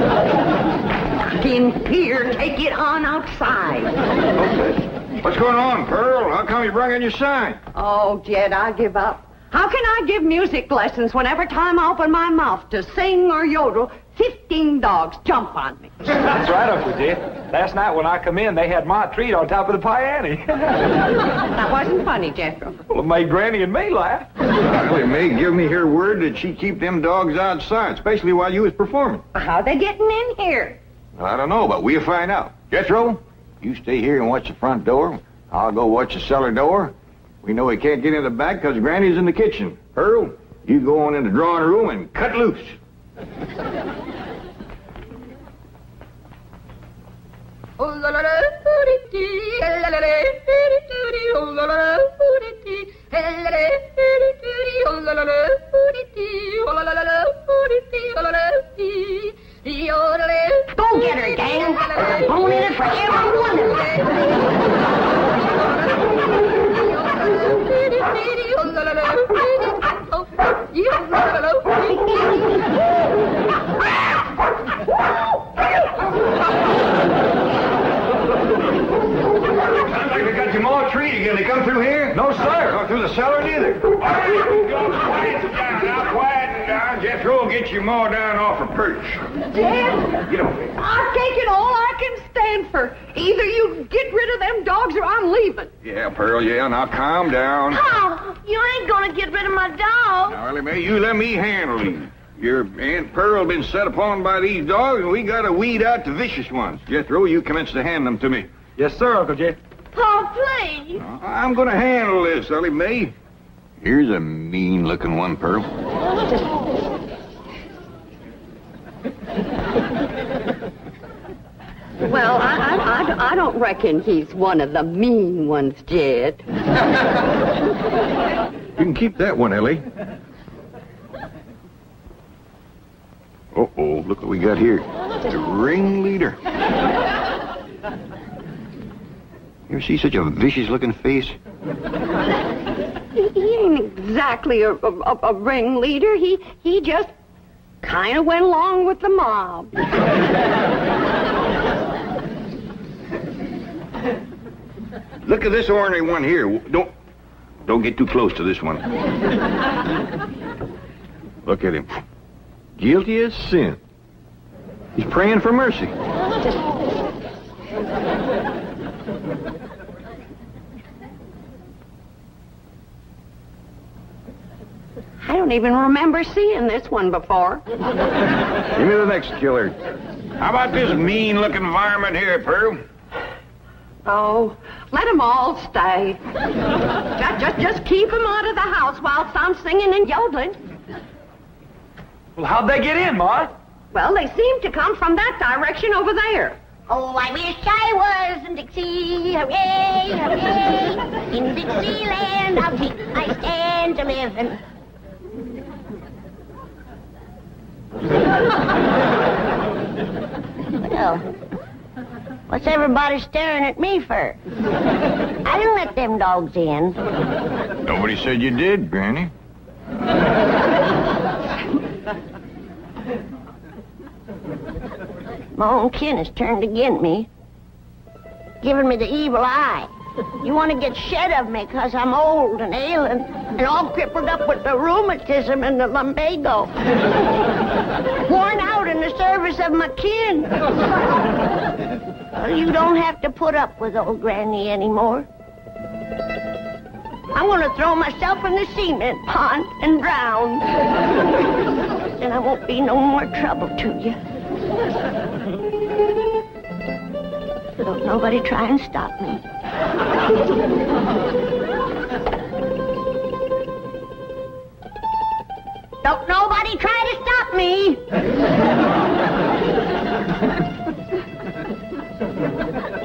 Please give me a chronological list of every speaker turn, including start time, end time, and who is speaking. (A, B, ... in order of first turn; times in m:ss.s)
0:01.4-0:03.9 A
0:04.4-0:07.6 B
0:07.7-0:15.9 A
0:16.1-0:20.8 C
0:21.5-0:22.8 A
0:22.9-0:24.3 C
0:24.6-0:29.2 B
0:29.3-0:30.8 A
0:31.2-0:42.8 B
1:00.5-1:04.1 D
1:19.7-1:29.3 B
1:22.1-1:22.8 C
1:29.6-1:30.1 A
1:30.2-1:30.7 B
1:30.8-1:35.7 A
1:35.8-1:37.8 B
1:37.7-1:40.4 D
1:40.2-1:48.5 B
1:48.8-1:49.6 C
1:49.9-1:51.0 D
1:51.0-1:53.1 B
1:53.8-1:55.7 B
2:02.0-2:06.4 A
2:08.8-2:09.8 B
2:13.5-2:16.4 B
2:19.7-2:21.4 B
2:23.1-2:27.1 A
2:27.8-2:29.7 A
2:35.2-2:36.9 B
2:37.6-2:38.8 B
2:41.4-2:42.0 B
2:42.8-2:43.8 B
2:45.0-2:45.9 B
2:55.2-2:57.6 A
2:58.7-2:59.8 B
3:00.4-3:02.8 B
3:04.0-3:06.2 A
3:07.1-3:10.6 A
3:12.4-3:13.5 C
3:13.9-3:16.6 A
3:16.9-3:24.6 D
3:30.8-3:31.2 D
3:32.5-3:34.4 D
3:35.4-3:37.0 D
3:37.8-3:39.3 B
3:45.5-3:47.3 D
3:48.6-3:49.9 D
3:50.4-3:56.7 D
3:58.2-4:00.5 D
4:02.3-4:05.3 D
4:07.3-4:10.7 D
4:12.1-4:14.2 D
4:17.8-4:19.4 D
4:26.0-4:28.0 D